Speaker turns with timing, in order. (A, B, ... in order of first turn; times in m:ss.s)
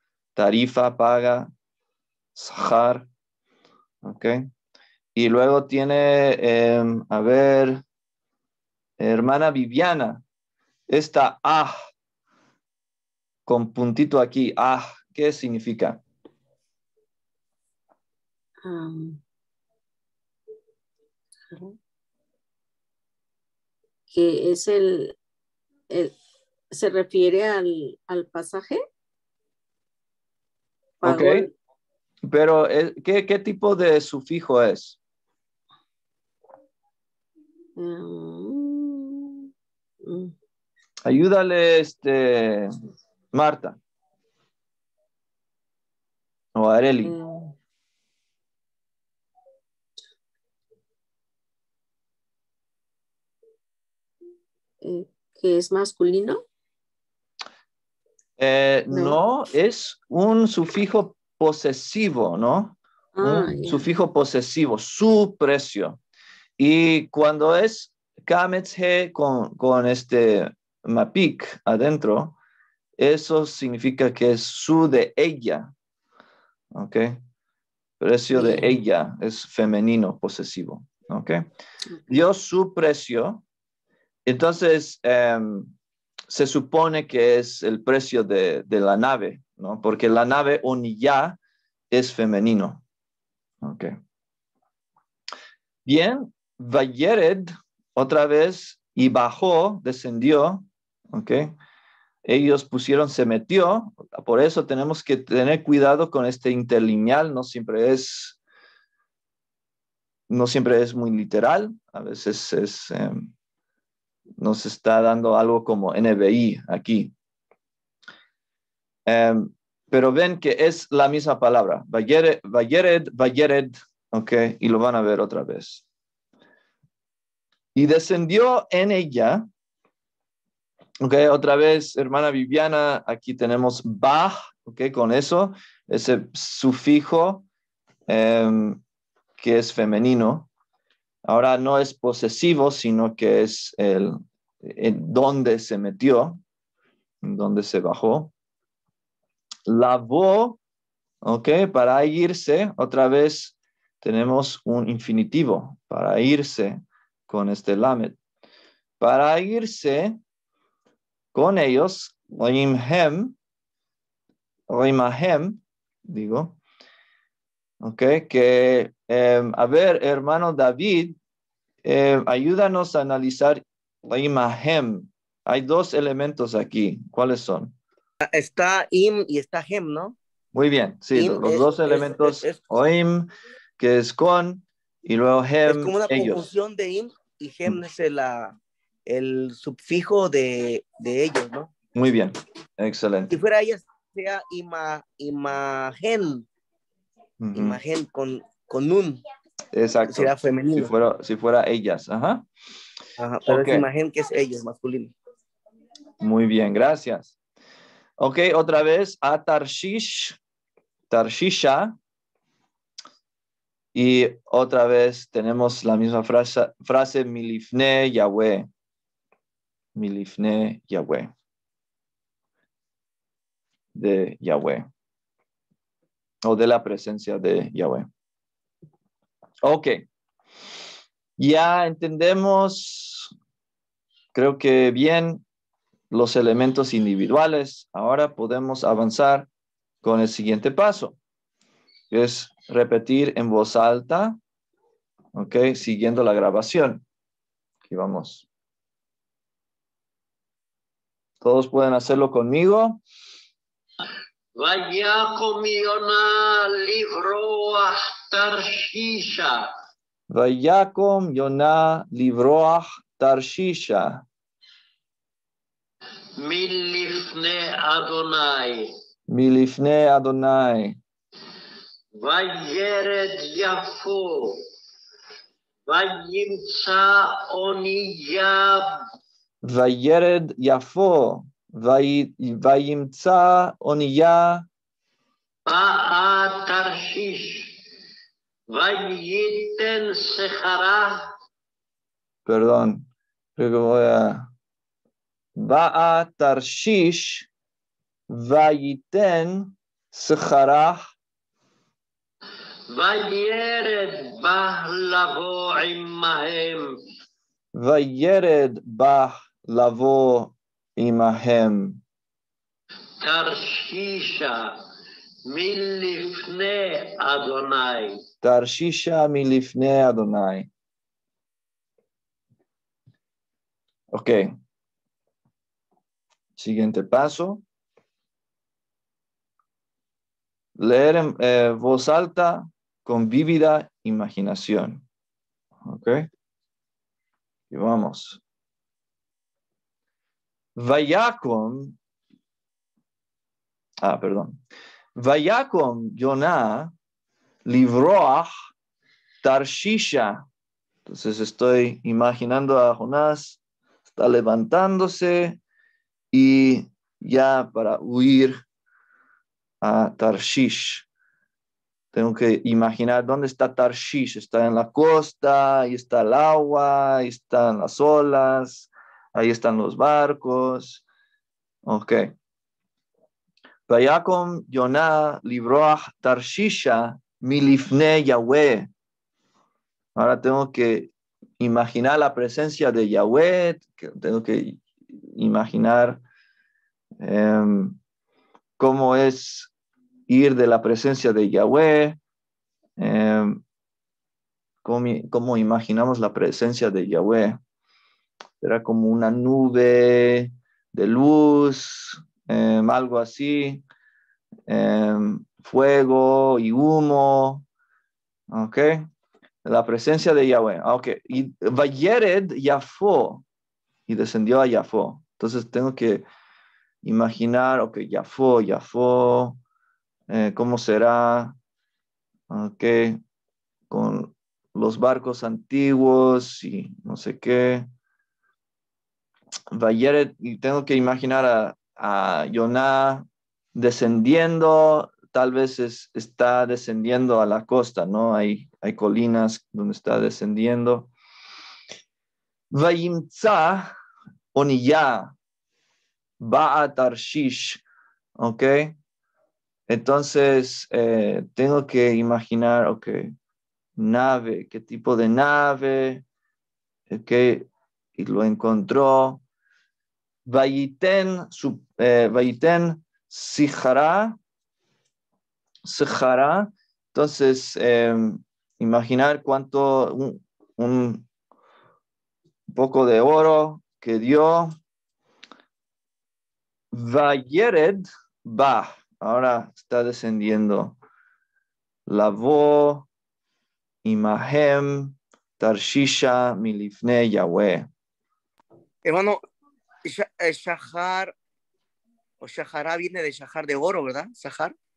0:00.3-0:01.5 A
0:02.3-0:03.1 A
0:04.0-0:04.5 A
0:05.1-0:07.8 A
0:09.0-0:10.2 A
0:10.9-0:11.8 A
0:13.4-0:16.0 A
0:18.6-0:19.2 B
0:21.5-0:21.8 B
0:24.1-0:25.2 B
0:25.9-0:26.2 B
0:26.7-0:28.8 B
0:31.0-0:31.5 B
0:31.0-0:31.5 A
0:32.3-0:35.0 A
0:37.8-0:39.5 B
0:40.0-0:40.3 B
0:41.0-0:42.8 A
0:43.3-0:43.8 A
0:46.5-0:47.1 A
0:47.0-0:47.6 B
0:54.8-0:56.4 B
0:58.4-1:06.0 A
0:58.9-0:59.2 B
1:03.2-1:03.8 B
1:06.6-1:12.4 A
1:13.0-1:15.7 A
1:16.7-1:17.2 A
1:18.0-1:21.4 A
1:18.3-1:18.7 B
1:22.1-1:23.4 A
1:24.2-1:25.7 A
1:26.3-1:31.4 A
1:31.9-1:32.8 A
1:33.6-1:33.9 A
1:35.8-1:41.5 A
1:42.2-1:48.4 A
1:50.3-1:53.3 A
1:54.4-1:57.1 A
1:59.1-2:05.8 A
2:07.7-2:09.4 A
2:11.0-2:17.4 A
2:18.1-2:18.8 A
2:19.4-2:20.5 A
2:21.2-2:26.4 A
2:27.2-2:28.3 A
2:29.7-2:30.6 A
2:31.2-2:38.2 A
2:39.0-2:40.2 A
2:41.3-2:43.4 A
2:44.7-2:46.6 A
2:47.8-2:51.2 A
2:51.8-2:57.7 A
2:58.2-3:00.2 C
3:00.5-3:06.4 A
3:01.1-3:02.6 C
3:05.6-3:11.7 C
3:11.9-3:13.3 A
3:13.3-3:16.4 C
3:17.4-3:17.8 A
3:17.5-3:19.2 C
3:19.7-3:22.4 A
3:20.1-3:20.9 C
3:23.2-3:25.1 C
3:23.4-3:23.9 A
3:26.2-3:27.3 A
3:28.2-3:30.4 A
3:31.1-3:31.9 A
3:33.9-3:38.7 A
3:40.0-3:41.3 A
3:43.9-3:44.8 A
3:46.4-3:48.1 A
3:49.6-3:50.0 A
3:51.4-3:53.3 A
3:54.3-3:55.4 A
3:56.1-3:59.5 A
4:00.0-4:01.2 A
4:02.1-4:04.4 A
4:05.3-4:07.0 A
4:07.9-4:08.4 A
4:11.4-4:13.0 A
4:14.6-4:19.7 D
4:20.3-4:24.2 A
4:26.4-4:28.9 D
4:29.3-4:31.0 A
4:32.1-4:34.6 D
4:35.9-4:39.0 D
4:39.6-4:44.6 A
4:45.7-4:47.8 D
4:48.7-4:51.3 D
4:52.4-4:54.5 A
4:55.6-4:57.5 A
4:58.3-5:01.1 A
5:02.9-5:07.0 D
5:07.7-5:12.0 A
5:13.2-5:14.8 D
5:15.5-5:18.2 D
5:18.4-5:20.7 A
5:24.1-5:24.5 A
5:26.6-5:27.6 A
5:30.8-5:35.0 A
5:35.8-5:36.3 A
5:37.7-5:38.4 A
5:40.8-5:42.0 A
5:44.0-5:44.6 A
5:45.2-5:46.9 A
5:47.6-5:48.5 A
5:49.4-5:50.4 A
5:51.0-5:55.6 A
5:56.3-5:58.6 A
5:59.8-6:01.0 A
6:02.1-6:11.0 A
6:11.8-6:12.3 A
6:13.9-6:18.9 A
6:20.2-6:26.2 A
6:27.2-6:28.0 A
6:28.8-6:29.7 A
6:30.3-6:32.2 A
6:33.0-6:33.6 A
6:34.8-6:37.6 A
6:38.6-6:43.8 A
6:44.7-6:47.6 A
6:48.5-6:49.0 A
6:49.6-6:53.4 A
6:54.1-6:56.2 A
6:57.0-6:59.6 A
7:00.3-7:01.6 A
7:02.5-7:03.2 A
7:03.9-7:07.9 A
7:09.7-7:21.1 A
7:22.7-7:23.9 A
7:24.5-7:25.3 A
7:26.4-7:27.8 A
7:28.4-7:29.0 A
7:29.9-7:33.3 A
7:34.0-7:36.2 A
7:37.1-7:39.4 A
7:40.4-7:44.4 A
7:45.8-7:51.2 A
7:52.7-7:54.7 A
7:56.9-8:01.0 A
8:02.1-8:03.1 A
8:04.0-8:07.9 A
8:09.0-8:09.4 C
8:10.0-8:11.3 C
8:12.4-8:14.7 C